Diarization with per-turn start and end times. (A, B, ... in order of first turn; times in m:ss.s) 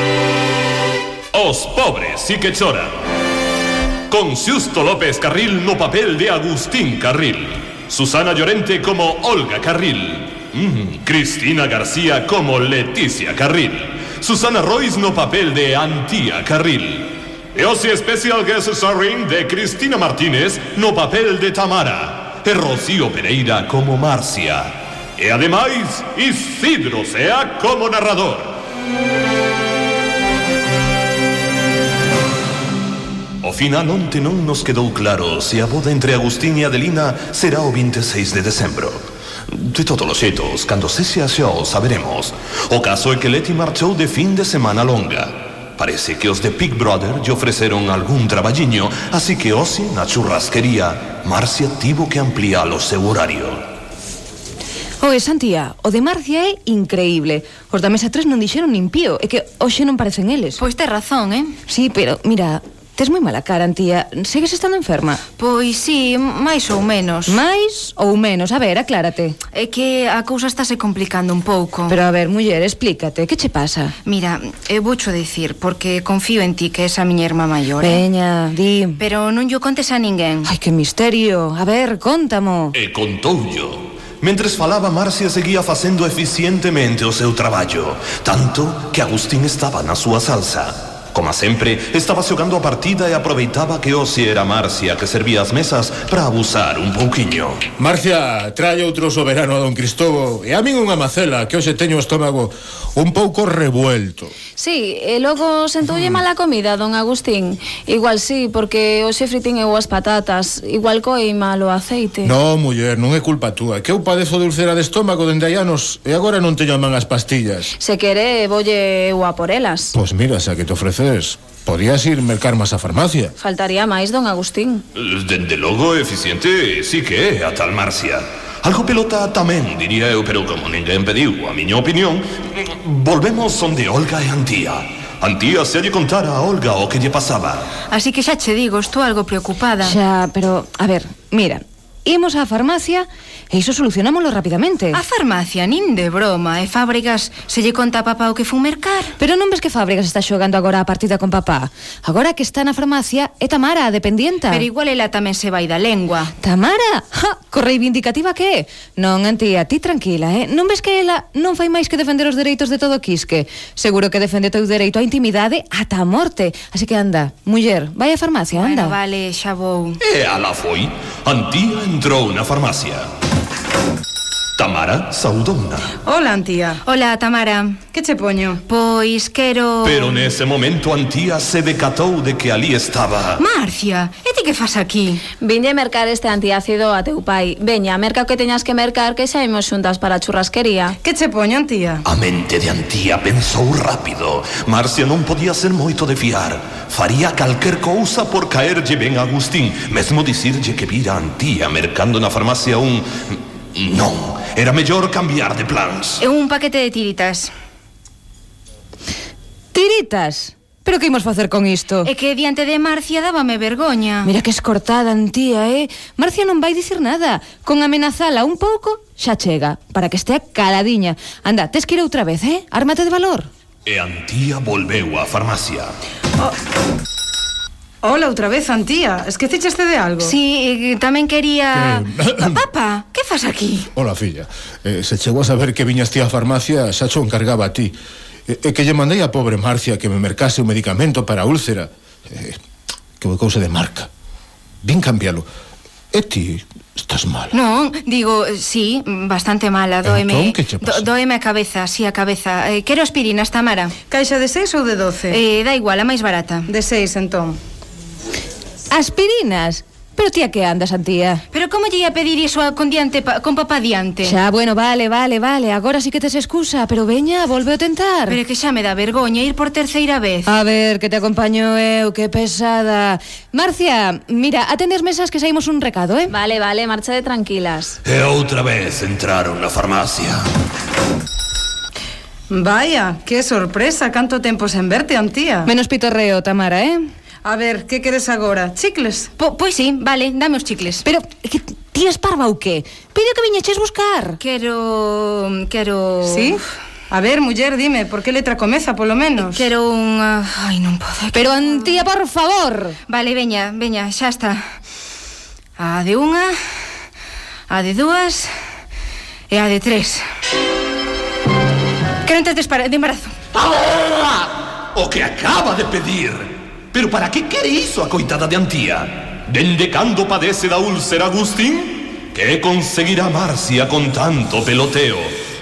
0:01.3-0:03.0 A
0:04.1-0:28.6 A
0:33.4-0:53.6 A
0:55.0-1:00.6 B
1:00.6-1:01.6 C
1:01.7-1:05.2 B
1:05.4-1:07.4 C
1:07.3-1:09.4 B
1:09.5-1:11.9 C
1:11.9-1:13.9 B
1:14.0-1:18.0 C
1:17.8-1:19.0 B
1:19.0-1:20.5 C
1:20.4-1:22.8 B
1:22.7-1:37.6 A
1:37.8-1:44.3 D
1:44.6-1:52.3 E
1:52.2-1:57.7 D
1:57.8-2:00.0 E
1:59.9-2:03.3 D
2:03.4-2:04.8 E
2:04.9-2:17.7 A
2:17.9-2:20.0 C
2:19.8-2:25.0 B
2:24.9-2:29.1 C
2:29.2-2:34.7 B
2:34.5-2:36.3 C
2:36.4-2:49.0 B
2:48.5-2:50.0 C
2:50.0-2:53.1 A
2:54.6-2:55.9 A
2:56.0-2:56.8 F
2:56.8-2:57.8 C
2:57.9-2:58.6 F
2:58.7-3:00.3 C
2:59.8-3:03.4 A
3:03.4-3:05.2 C
3:05.4-3:11.0 E
3:11.0-3:12.0 F
3:12.0-3:26.2 A
3:26.2-3:27.5 C
3:29.7-3:32.1 B
3:32.0-3:34.3 C
3:34.2-3:43.5 B
3:43.8-3:45.9 A
3:48.0-3:50.3 F
3:50.2-3:53.9 C
3:51.7-3:52.6 D
3:53.9-3:57.9 D
3:58.5-4:02.6 D
4:03.2-4:04.1 D
4:04.8-4:05.5 D
4:06.1-4:07.6 D
4:07.5-4:14.0 C
4:10.0-4:11.0 D
4:14.1-4:15.4 F
4:15.3-4:16.7 C
4:16.7-4:17.6 F
4:18.9-4:21.4 B
4:21.5-4:24.3 C
4:24.2-4:28.4 B
4:28.3-4:30.5 C
4:30.4-4:36.3 B
4:36.3-4:38.0 E
4:38.0-4:40.4 A
4:42.5-4:45.7 F
4:45.6-4:47.0 B
4:47.4-4:49.3 F
4:49.4-4:51.0 C
4:51.0-4:54.4 B
4:54.4-4:56.6 C
4:56.3-4:56.6 F
4:57.1-4:59.6 F
4:59.4-5:02.0 C
5:01.3-5:03.0 B
5:03.1-5:04.6 C
5:05.8-5:06.5 C
5:07.7-5:08.5 C
5:09.5-5:10.2 C
5:12.2-5:13.3 C
5:13.5-5:25.4 A